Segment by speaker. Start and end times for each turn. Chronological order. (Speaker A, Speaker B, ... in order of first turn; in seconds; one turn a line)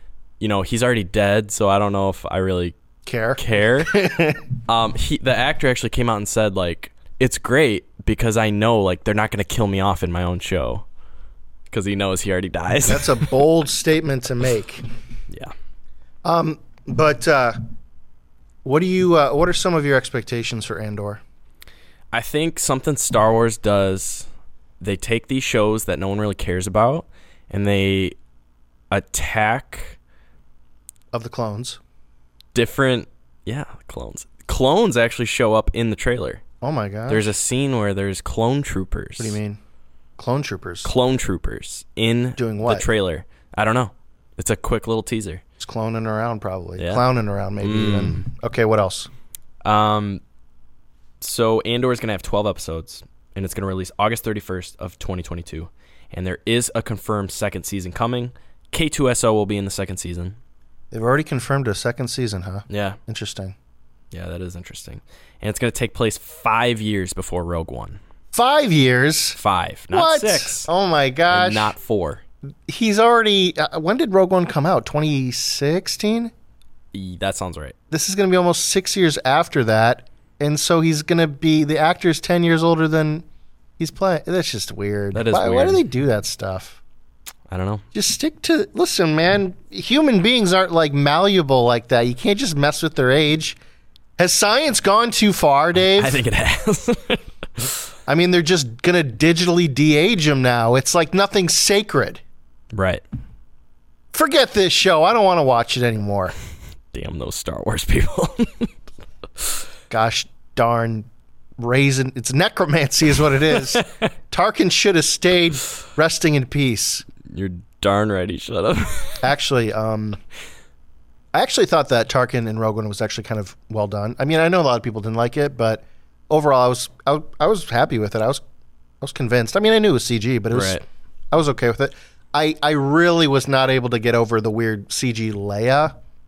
Speaker A: 0.4-2.8
Speaker B: 3.0-4.4
Speaker A: 3.4-4.0
Speaker A: 4.7-10.8
Speaker A: 11.7-13.4
Speaker B: 12.9-14.8
Speaker B: 16.2-17.6
Speaker B: 18.6-21.2
Speaker A: 22.1-24.3
Speaker A: 24.8-28.1
Speaker A: 28.9-30.0
Speaker B: 31.1-31.8
Speaker A: 32.5-36.4
Speaker B: 36.6-37.3
Speaker A: 37.1-39.4
Speaker B: 39.2-39.6
Speaker B: 40.2-40.9
Speaker A: 40.8-45.4
Speaker B: 42.4-42.9
Speaker B: 45.6-49.1
Speaker A: 46.8-47.0
Speaker A: 47.6-48.2
Speaker A: 49.6-50.2
Speaker A: 51.2-60.4
Speaker B: 60.9-63.5
Speaker A: 62.7-63.0
Speaker A: 64.1-68.0
Speaker B: 68.3-69.4
Speaker A: 69.4-70.7
Speaker B: 69.9-71.7
Speaker A: 71.3-72.2
Speaker B: 72.7-76.3
Speaker A: 76.9-77.7
Speaker B: 77.9-83.2
Speaker B: 83.8-86.8
Speaker A: 85.1-85.8
Speaker A: 87.5-87.8
Speaker B: 87.9-93.6
Speaker B: 94.2-96.2
Speaker A: 95.8-97.7
Speaker B: 98.1-102.2
Speaker A: 102.7-103.0
Speaker B: 104.1-106.3
Speaker A: 106.9-108.7
Speaker B: 109.9-111.1
Speaker B: 111.6-117.0
Speaker A: 117.3-119.2
Speaker B: 119.2-120.2
Speaker B: 121.3-128.4
Speaker B: 129.0-135.9
Speaker A: 130.5-130.8